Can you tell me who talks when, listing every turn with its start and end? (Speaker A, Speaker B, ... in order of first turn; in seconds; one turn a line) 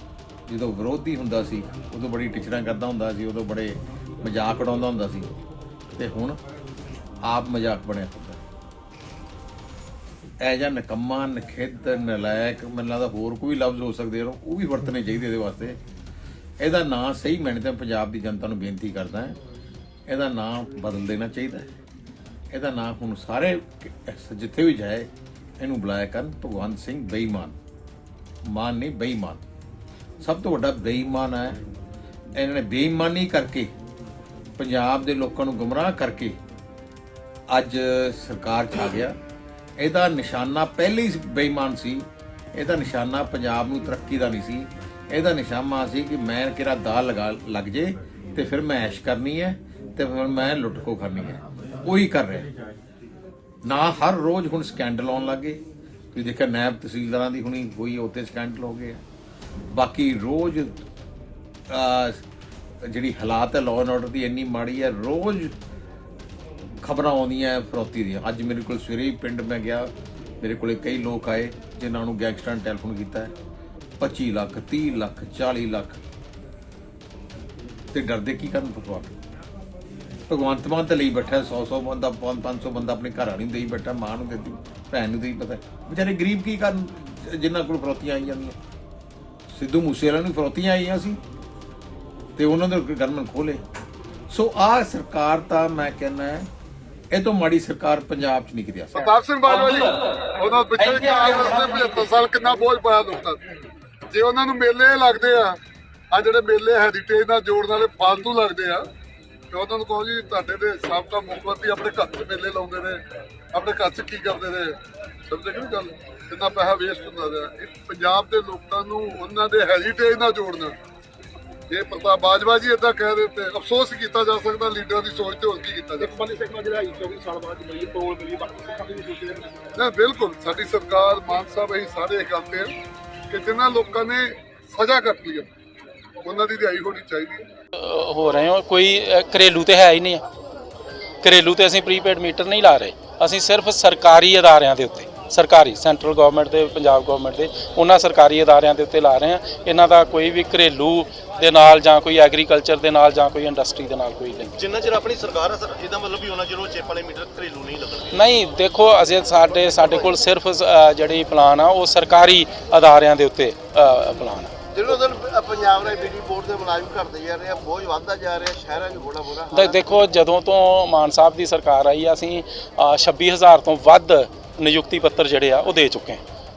Speaker A: 0.5-5.3
Speaker A: 6.0-6.4
Speaker A: 7.3-8.4
Speaker A: 10.4-15.8
Speaker A: 16.6-19.4
Speaker A: 20.1-21.7
Speaker A: 22.5-25.1
Speaker A: 25.6-27.6
Speaker A: 28.5-29.4
Speaker A: 30.2-31.6
Speaker A: 32.4-33.7
Speaker A: 34.6-36.4
Speaker A: 37.5-39.1
Speaker A: 39.8-52.5
Speaker A: 53.6-55.6
Speaker A: 56.1-59.0
Speaker A: 59.7-60.8
Speaker A: 61.7-62.2
Speaker A: 62.9-65.5
Speaker A: 66.8-73.3
Speaker A: 74.0-76.0
Speaker A: 77.9-79.1
Speaker A: 80.3-88.6
Speaker A: 89.5-91.2
Speaker A: 92.4-93.6
Speaker A: 94.3-96.5
Speaker A: 97.1-99.1
Speaker B: 98.9-103.4
Speaker B: 104.1-105.6
Speaker B: 106.1-108.8
Speaker B: 109.5-113.0
Speaker B: 113.5-114.8
Speaker B: 115.3-120.7
Speaker B: 121.7-126.1
Speaker C: 126.0-129.6
Speaker B: 129.8-132.7
Speaker B: 133.3-135.5
Speaker B: 136.2-137.4
Speaker D: 137.8-140.2
Speaker D: 141.2-154.6
Speaker E: 154.6-158.2
Speaker D: 158.1-164.5
Speaker E: 164.7-169.9
Speaker D: 169.5-176.2